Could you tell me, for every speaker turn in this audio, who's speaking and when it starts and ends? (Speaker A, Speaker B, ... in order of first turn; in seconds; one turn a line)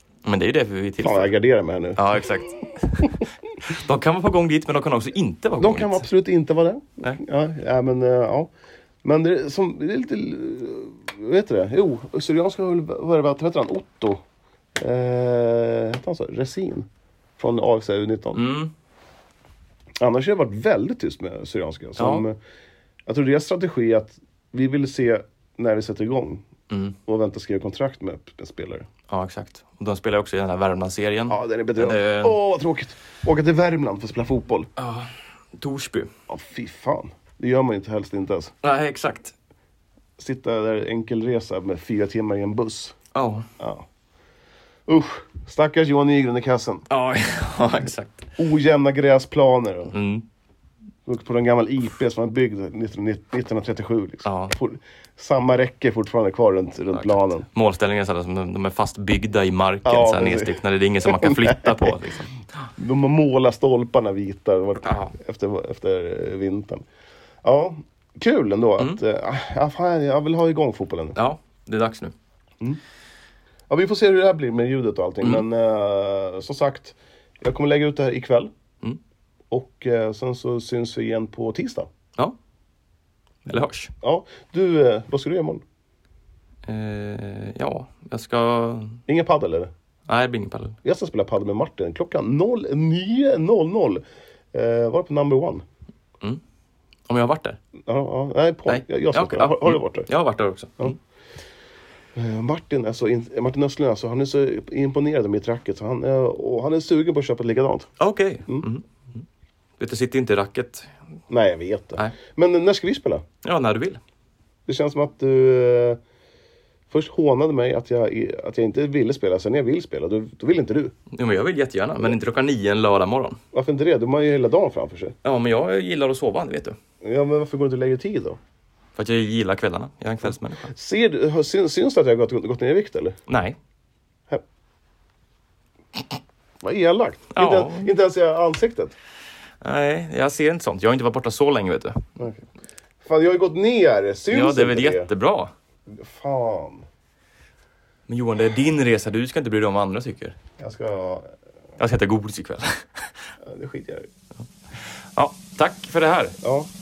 Speaker A: 0.2-1.3
Speaker B: 1.0-2.4
Speaker A: 1.9-6.0
Speaker B: 5.6-8.5
Speaker B: 9.0-14.2
Speaker B: 14.8-18.4
Speaker A: 18.3-18.7
Speaker B: 20.0-22.4
Speaker A: 22.0-22.2
Speaker B: 23.1-26.4
Speaker A: 26.7-27.0
Speaker B: 27.1-28.9
Speaker A: 29.1-32.4
Speaker B: 31.3-34.7
Speaker A: 34.8-36.1
Speaker B: 36.3-38.5
Speaker A: 38.6-39.3
Speaker B: 40.2-43.0
Speaker A: 43.1-43.5
Speaker B: 43.6-43.9
Speaker B: 44.9-46.8
Speaker A: 46.9-48.3
Speaker B: 48.4-49.9
Speaker A: 49.9-50.2
Speaker B: 51.0-57.5
Speaker A: 54.2-54.5
Speaker A: 56.9-62.3
Speaker B: 59.8-62.0
Speaker B: 62.8-66.8
Speaker A: 64.8-65.1
Speaker B: 67.4-71.2
Speaker A: 71.1-72.1
Speaker B: 73.7-78.5
Speaker B: 79.5-81.9
Speaker A: 83.5-83.9
Speaker B: 84.0-85.6
Speaker A: 86.7-89.0
Speaker B: 89.1-89.7
Speaker A: 90.1-90.8
Speaker B: 90.8-95.6
Speaker A: 97.1-97.6
Speaker B: 97.9-100.1
Speaker A: 98.7-101.0
Speaker B: 102.1-107.9
Speaker A: 108.0-109.2
Speaker A: 109.8-111.0
Speaker B: 111.3-113.2
Speaker A: 113.4-114.0
Speaker B: 114.7-116.0
Speaker B: 116.9-120.9
Speaker A: 121.1-123.4
Speaker B: 123.5-125.1
Speaker A: 125.2-126.8
Speaker B: 127.0-128.4
Speaker A: 128.9-130.7
Speaker B: 130.7-133.2
Speaker A: 133.3-133.6
Speaker B: 136.6-138.9
Speaker A: 137.3-137.9
Speaker A: 139.6-142.1
Speaker B: 142.2-142.4
Speaker B: 143.0-145.1
Speaker A: 144.3-145.5
Speaker B: 145.9-146.8
Speaker A: 148.1-150.4
Speaker B: 150.6-151.3
Speaker A: 151.8-153.0
Speaker B: 153.4-154.1
Speaker A: 155.2-156.4
Speaker B: 156.4-156.7